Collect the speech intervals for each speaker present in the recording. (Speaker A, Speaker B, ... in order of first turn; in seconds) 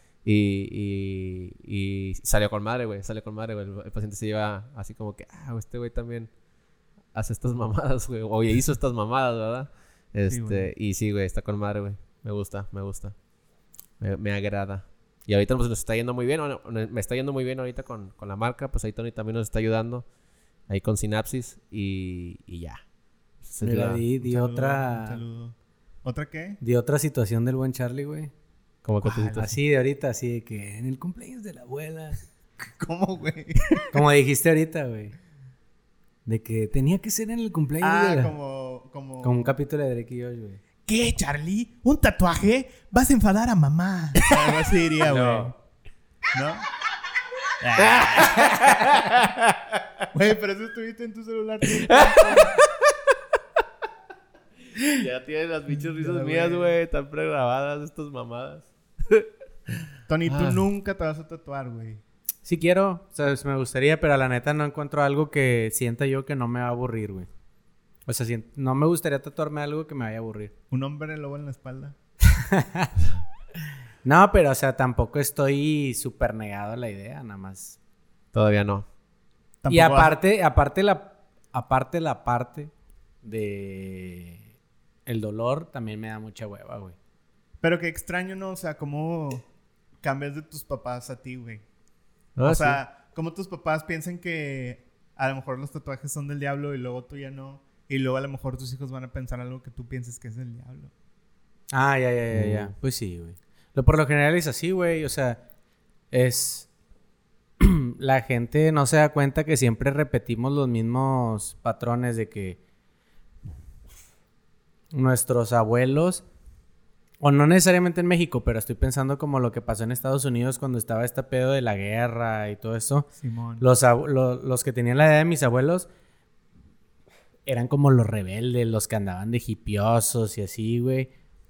Speaker A: 0.2-6.3, 7.1-13.2, 14.0-20.1, 20.7-22.8, 23.4-24.0, 28.9-29.5, 45.0-45.5, 47.8-50.0, 51.8-52.9, 54.8-60.6, 78.3-78.9, 92.4-92.8, 102.3-102.7
Speaker B: 10.3-10.7, 24.2-26.6, 29.1-29.5, 32.7-33.9, 37.8-39.5, 40.9-45.5, 46.3-46.7, 47.6-48.9, 50.1-52.6, 55.7-56.8, 60.1-62.0, 70.7-72.0, 79.6-80.2, 87.6-89.4, 90.0-91.6, 92.5-100.9, 123.2-123.7
Speaker C: 23.6-25.2, 26.6-28.3, 29.3-32.2, 33.9-35.1, 36.3-38.4, 39.2-40.6, 62.5-67.3, 68.1-70.5, 72.3-72.9, 74.0-77.8, 79.7-82.7, 83.2-84.5, 85.1-87.0, 101.7-105.4, 106.1-106.7, 107.6-112.6, 114.9-116.2, 117.2-123.1, 123.6-125.9, 127.5-131.1